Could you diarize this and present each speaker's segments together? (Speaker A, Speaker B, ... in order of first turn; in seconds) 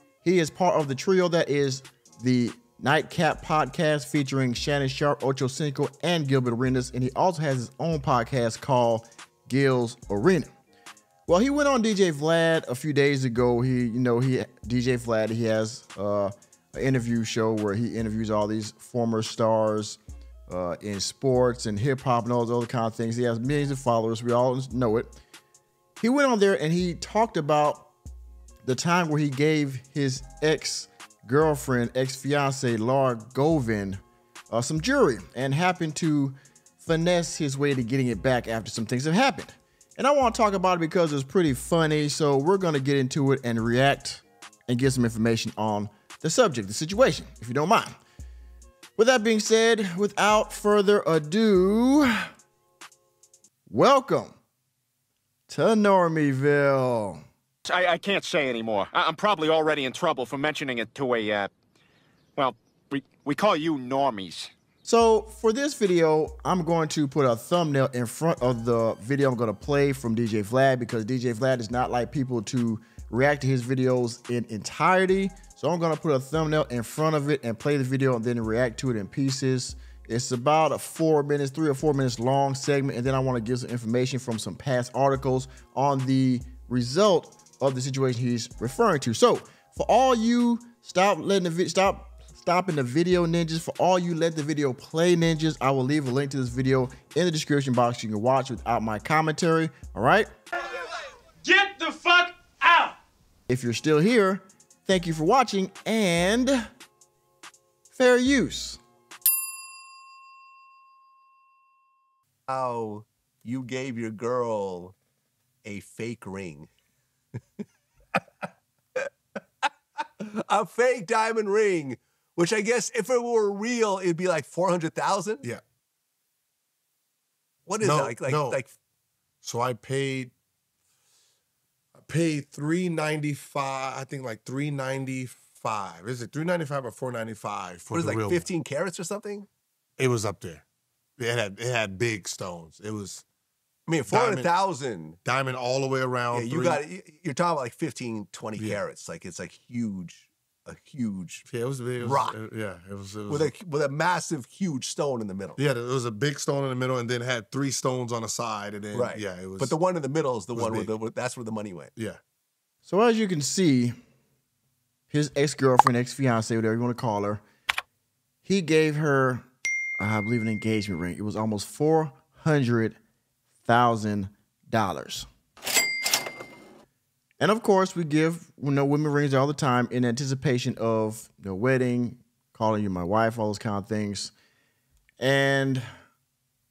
Speaker A: 0.2-10.5, 11.3-25.1, 26.0-27.9, 28.6-47.9, 49.0-52.1, 53.7-54.3, 55.5-57.2, 64.8-100.3, 103.5-106.6, 107.9-108.8, 162.8-163.9, 165.1-167.4, 168.4-169.4, 170.0-173.0, 173.6-175.3, 177.4-184.3, 185.2-185.8
Speaker B: 57.7-61.5, 62.4-64.5, 101.4-102.9
Speaker C: 112.5-114.9, 115.6-116.7, 120.2-125.4, 127.7-128.7, 137.9-139.5, 143.9-145.2, 146.3-151.4, 152.0-152.4, 153.3-155.6, 158.9-161.9
Speaker D: 127.8-128.6, 129.4-130.3, 132.0-138.5, 140.0-140.6, 141.2-143.2, 144.1-144.5, 145.2-146.8, 151.4-153.5, 155.6-159.8, 160.5-160.9